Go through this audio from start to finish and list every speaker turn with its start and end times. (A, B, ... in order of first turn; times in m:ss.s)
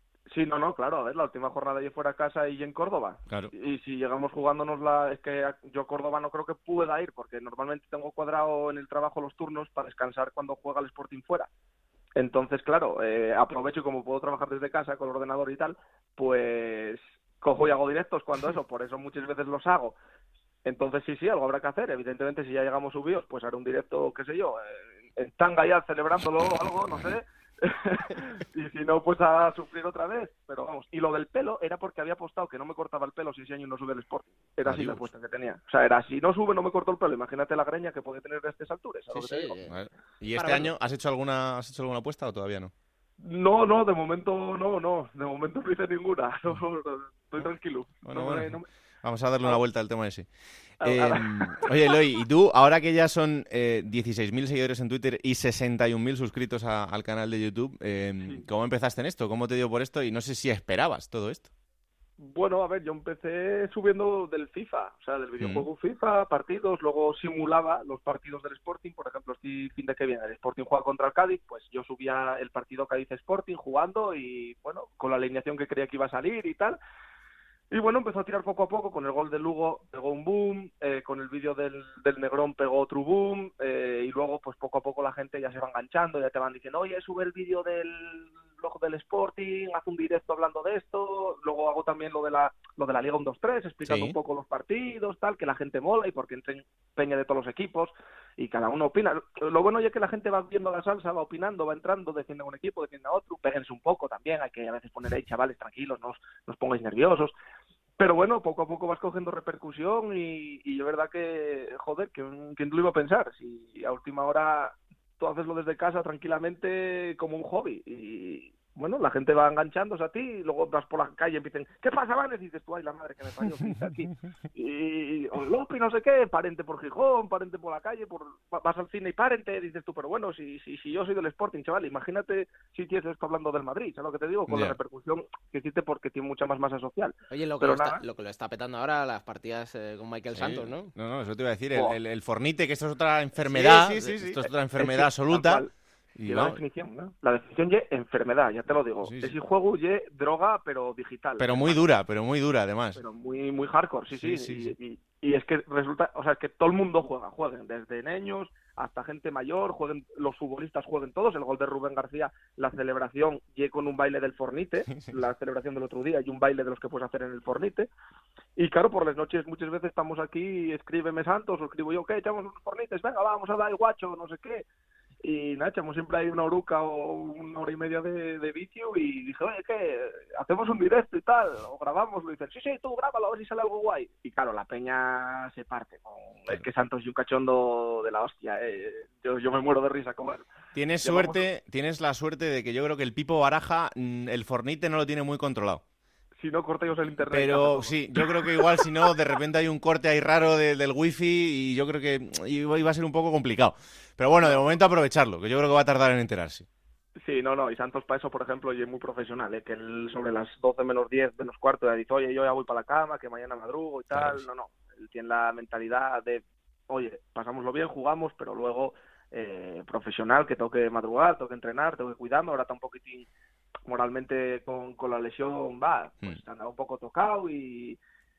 0:00.3-0:11.5 A
0:12.2-0:20.0 A
0:20.6-0:39.6 A
0:34.6-0:35.0 B
0:39.1-0:39.8 C
0:39.7-0:42.7 B
0:40.4-0:40.7 C
0:43.2-0:48.7 A
0:48.0-1:01.5 B
0:50.8-0:51.6 A
1:02.2-1:16.8 A
1:05.4-1:05.7 B
1:17.7-1:47.3 A
1:33.8-1:34.2 B
1:48.0-2:18.0 A
2:14.5-2:14.8 B
2:17.3-2:20.9 C
2:20.3-2:25.6 B
2:23.6-2:24.0 C
2:23.9-2:25.7 A
2:26.2-2:26.6 B
2:26.3-2:31.8 A
2:29.0-2:29.4 B
2:31.4-2:33.0 B
2:33.0-2:47.9 A
2:34.1-2:34.7 B
2:48.6-2:54.6 A
2:55.2-3:10.4 A
3:10.8-3:15.8 B
3:11.0-3:11.4 A
3:16.4-3:18.5 A
3:17.2-3:26.7 B
3:24.4-3:24.7 A
3:27.2-3:43.3 A
3:34.1-3:34.4 B
3:43.9-3:48.0 A